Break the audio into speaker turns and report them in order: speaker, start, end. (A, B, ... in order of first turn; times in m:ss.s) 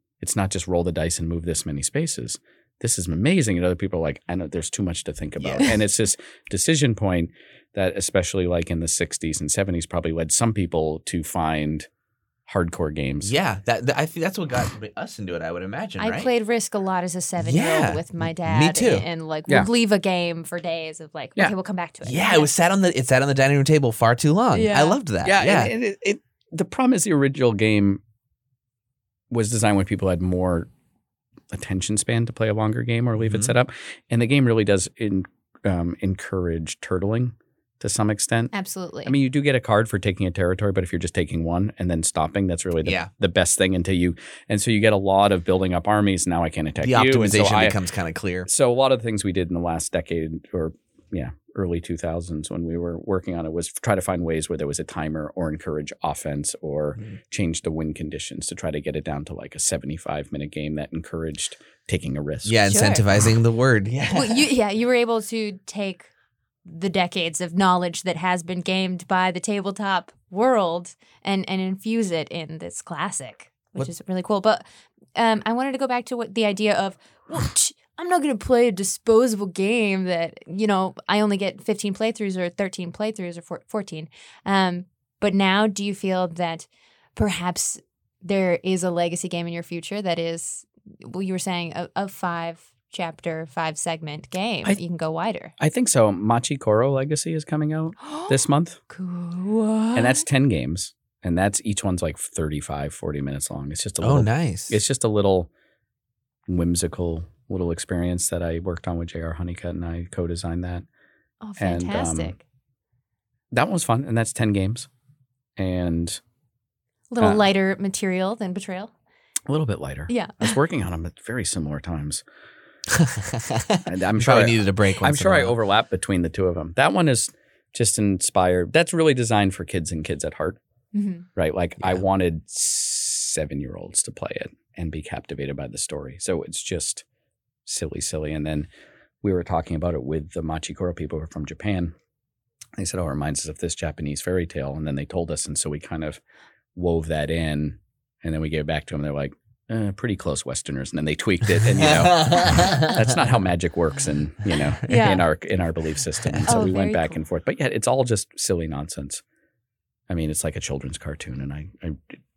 0:00.2-0:11.9 A
0:05.4-0:05.7 B
0:12.5-0:13.3 A
0:13.2-0:16.3 B
0:16.0-0:22.5 C
0:17.4-0:19.0 B
0:22.0-0:25.7 B
0:24.5-0:25.0 C
0:25.2-0:28.0 A
0:29.3-0:30.7 A
0:31.5-0:38.5 A
0:33.2-0:33.5 B
0:38.5-0:39.1 C
0:39.0-0:47.8 A
0:46.8-0:48.5 B
0:48.5-1:02.6 A
1:02.4-1:04.4 B
1:02.7-1:03.0 C
1:04.1-1:06.1 C
1:06.6-1:14.6 C
1:15.1-1:35.5 C
1:35.6-1:38.8 A
1:38.0-1:40.2 C
1:39.9-1:45.5 A
1:44.0-1:44.8 B
1:46.5-1:50.8 A
1:51.4-1:52.4 C
1:51.6-1:52.4 A
1:53.5-1:54.9 A
1:55.6-1:56.2 A
1:57.1-1:58.9 C
1:59.5-2:02.2 A
2:00.1-2:00.6 C
2:02.9-2:05.5 B
2:03.8-2:10.6 A
2:10.9-2:11.2 C
2:11.4-2:17.0 A
2:17.6-2:18.7 A
2:19.2-2:21.9 A
2:22.8-2:26.2 A
2:26.7-2:39.2 A
2:31.7-2:33.0 B
2:34.8-2:35.2 C
2:36.4-2:37.2 C
2:40.1-2:42.2 A